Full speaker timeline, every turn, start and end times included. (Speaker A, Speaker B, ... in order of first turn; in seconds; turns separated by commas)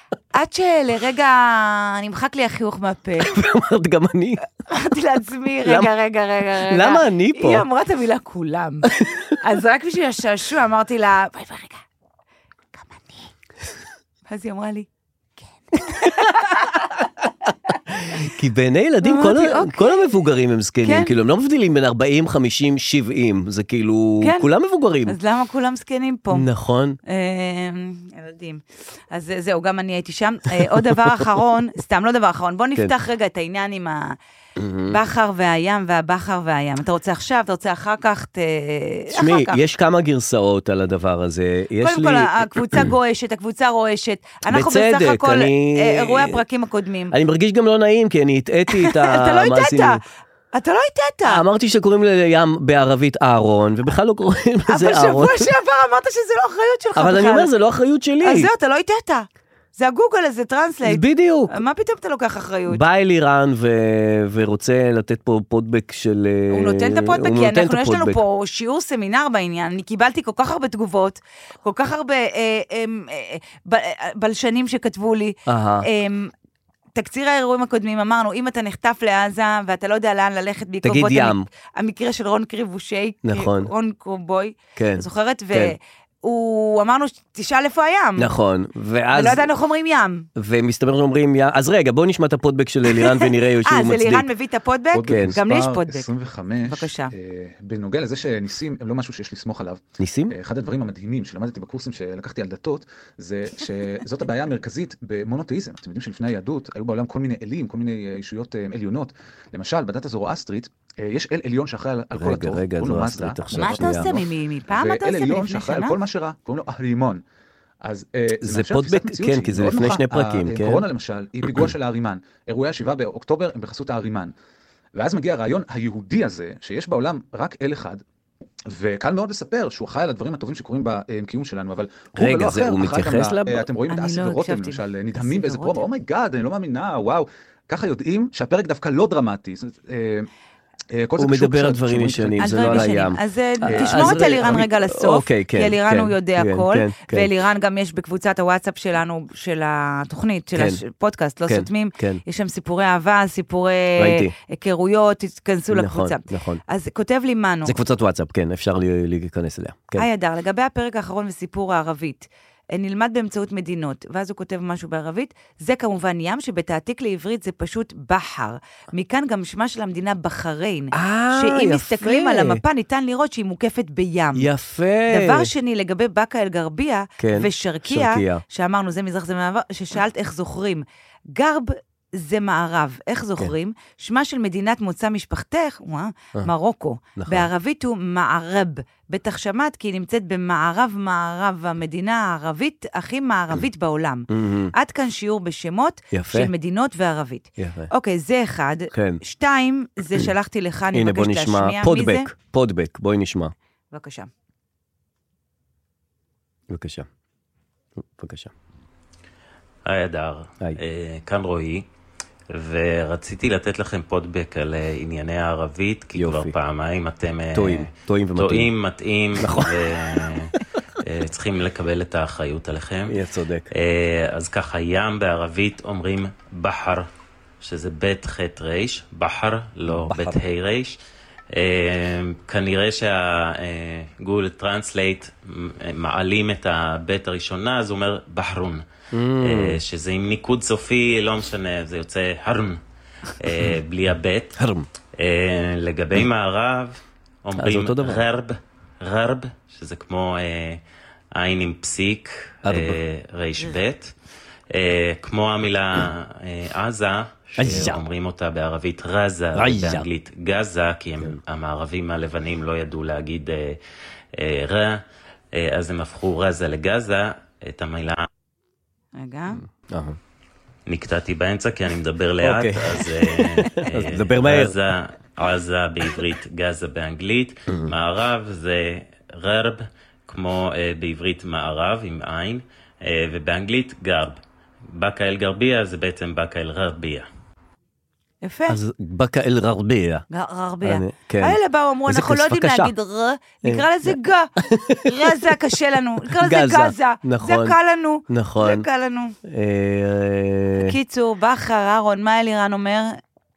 Speaker A: 0.3-3.3, Speaker B: 3.2-4.4, Speaker A: 4.7-11.8, Speaker B: 5.7-5.9, Speaker B: 6.6-7.7, Speaker B: 8.9-9.3, Speaker A: 12.7-13.3, Speaker A: 14.3-14.9, Speaker A: 15.7-16.9, Speaker B: 17.9-25.2, Speaker A: 19.0-20.1, Speaker A: 20.8-21.1, Speaker A: 24.2-24.5, Speaker A: 25.1-26.5, Speaker B: 26.3-27.0, Speaker A: 27.1-34.2, Speaker B: 34.6-35.0, Speaker A: 34.9-39.6, Speaker B: 39.1-42.9, Speaker A: 41.8-47.1, Speaker B: 44.5-46.4, Speaker B: 47.1-50.0, Speaker A: 48.7-50.0, Speaker A: 50.5-51.4, Speaker B: 51.2-55.5, Speaker A: 54.7-57.5, Speaker B: 57.0-58.5, Speaker A: 58.2-62.8, Speaker B: 60.9-61.6, Speaker B: 62.7-68.2, Speaker A: 66.5-76.3, Speaker B: 75.5-75.9, Speaker A: 77.0-88.3, Speaker B: 80.8-81.5, Speaker B: 83.2-83.7, Speaker B: 84.8-85.8, Speaker B: 88.2-89.5, Speaker A: 89.1-90.3, Speaker B: 90.4-94.3, Speaker A: 92.9-96.1, Speaker C: 94.9-117.2, Speaker B: 95.0-95.4, Speaker A: 96.7-97.1, Speaker B: 100.0-100.3, Speaker B: 112.1-114.1, Speaker A: 113.6-116.0, Speaker C: 117.8-124.3, Speaker B: 118.4-120.8, Speaker C: 125.0-128.0, Speaker C: 128.7-140.3, Speaker B: 132.2-133.7, Speaker A: 133.9-135.8, Speaker C: 140.9-142.9, Speaker B: 141.2-147.3, Speaker A: 142.4-157.8, Speaker C: 143.7-144.6, Speaker B: 150.6-150.8, Speaker B: 151.5-152.2, Speaker B: 154.0-154.3, Speaker B: 155.7-156.6, Speaker B: 157.7-160.1, Speaker A: 160.0-174.5, Speaker B: 170.9-172.6, Speaker B: 174.4-175.5, Speaker A: 175.1-202.3, Speaker B: 177.2-178.4, Speaker B: 187.2-187.5, Speaker B: 194.3-194.7, Speaker B: 196.1-196.5, Speaker B: 197.6-197.9, Speaker B: 198.9-199.2, Speaker B: 200.9-203.5, Speaker A: 203.9-204.3, Speaker B: 206.7-207.1, Speaker B: 208.2-208.5, Speaker D: 209.9-211.8, Speaker D: 212.5-223.2, Speaker B: 216.2-216.5, Speaker B: 217.5-218.7, Speaker B: 219.4-219.8, Speaker B: 223.1-223.7, Speaker D: 223.7-227.1, Speaker D: 227.6-231.0, Speaker B: 229.9-230.4, Speaker D: 231.6-238.8, Speaker B: 239.1-239.8, Speaker D: 239.4-242.8, Speaker D: 243.4-244.6, Speaker B: 244.6-244.9, Speaker D: 245.2-250.8, Speaker B: 247.6-248.2, Speaker D: 251.4-254.1, Speaker B: 252.7-253.0, Speaker D: 254.7-263.8, Speaker B: 257.6-258.0, Speaker B: 259.6-260.1, Speaker D: 264.4-265.0, Speaker D: 265.5-268.3, Speaker A: 269.2-269.6, Speaker B: 269.8-270.2, Speaker D: 270.9-284.4, Speaker B: 272.4-274.7, Speaker D: 284.9-287.3, Speaker A: 288.4-288.8, Speaker B: 288.7-290.2, Speaker A: 290.3-294.5, Speaker B: 290.8-292.9, Speaker B: 293.6-295.6, Speaker A: 295.0-299.4, Speaker B: 296.2-298.9, Speaker B: 299.4-301.0, Speaker A: 300.8-303.2